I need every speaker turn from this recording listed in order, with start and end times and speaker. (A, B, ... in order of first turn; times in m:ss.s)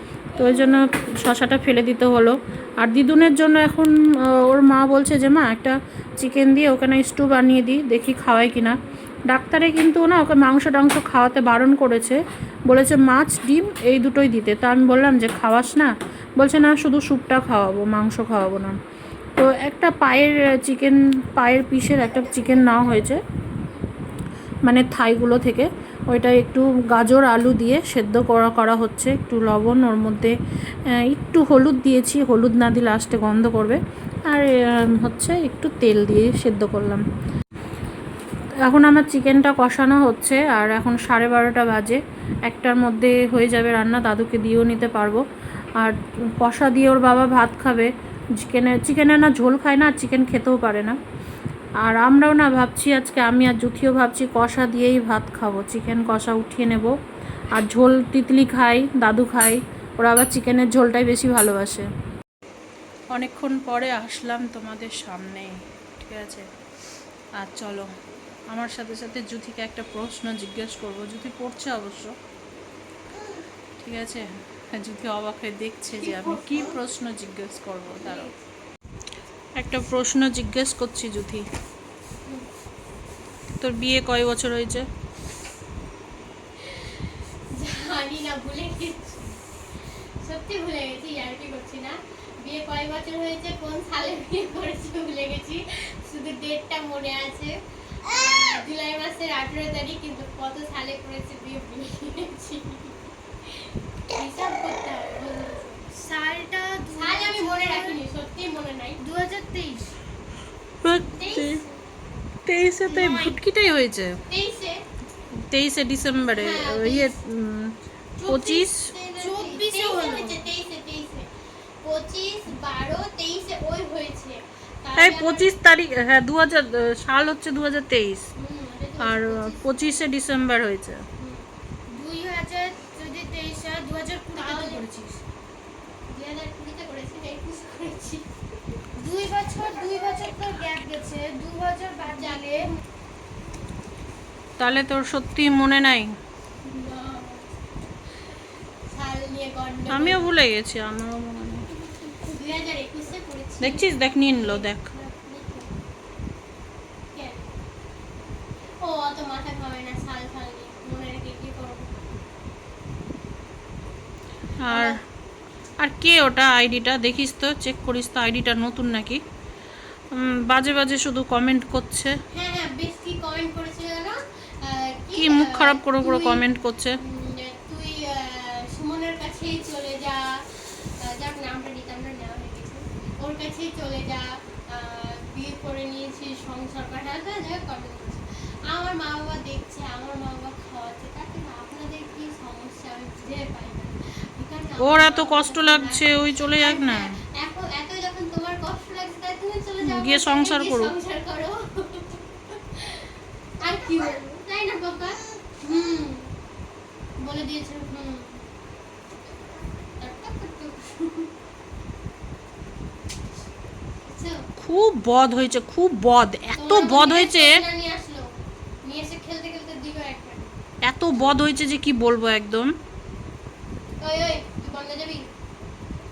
0:00.3-0:18.8 A
0:19.4-0:23.2 A
0:24.6-0:30.4 A
0:30.9-0:37.0 A
0:38.6-0:45.2 A
0:45.8-0:51.0 A
0:51.8-0:56.9 A
0:57.5-1:01.9 A
1:03.1-1:06.5 A
1:07.4-1:07.9 A
1:08.5-1:12.1 A
1:13.8-1:18.3 A
1:16.0-1:16.8 B
1:18.0-1:18.4 B
1:19.6-1:21.4 A
1:23.6-1:24.9 A
1:26.6-1:29.4 B
1:30.2-1:45.9 B
1:45.9-1:48.0 C
1:46.9-1:49.0 B
1:49.0-1:49.9 C
1:50.8-1:51.6 A
1:51.1-1:51.7 B
1:52.4-1:54.2 A
1:52.8-1:53.4 C
1:54.3-1:54.8 B
1:55.4-1:57.8 A
1:56.3-1:57.1 B
1:58.2-2:01.3 B
1:58.3-1:58.9 A
1:59.2-2:00.4 C
2:01.8-2:05.5 B
2:05.0-2:08.3 A
2:08.4-2:09.6 B
2:09.0-2:11.0 A
2:11.2-2:11.4 B
2:11.9-2:15.2 C
2:14.4-2:14.8 B
2:16.1-2:18.2 B
2:19.0-2:22.6 C
2:22.1-2:22.6 B
2:24.6-2:26.1 A
2:26.6-2:27.5 B
2:28.8-2:30.3 B
2:29.9-2:31.7 A
2:32.1-2:35.7 B
2:33.6-2:34.9 A
2:37.1-2:37.5 B
2:38.8-2:42.0 B
2:44.6-2:45.0 A
2:44.7-2:45.0 B
2:45.8-2:49.2 A
2:50.1-2:52.2 A
2:52.3-2:56.4 B
2:55.1-2:57.0 A
2:57.0-3:23.1 B
3:14.8-3:17.2 A
3:19.8-3:20.9 A
3:23.6-3:26.3 B
3:27.2-3:28.4 B
3:30.0-3:31.3 B
3:34.0-3:34.4 B
3:34.6-3:37.6 A
3:36.6-3:38.3 B
3:38.8-3:40.5 B
3:40.8-3:42.8 A
3:44.0-3:45.3 B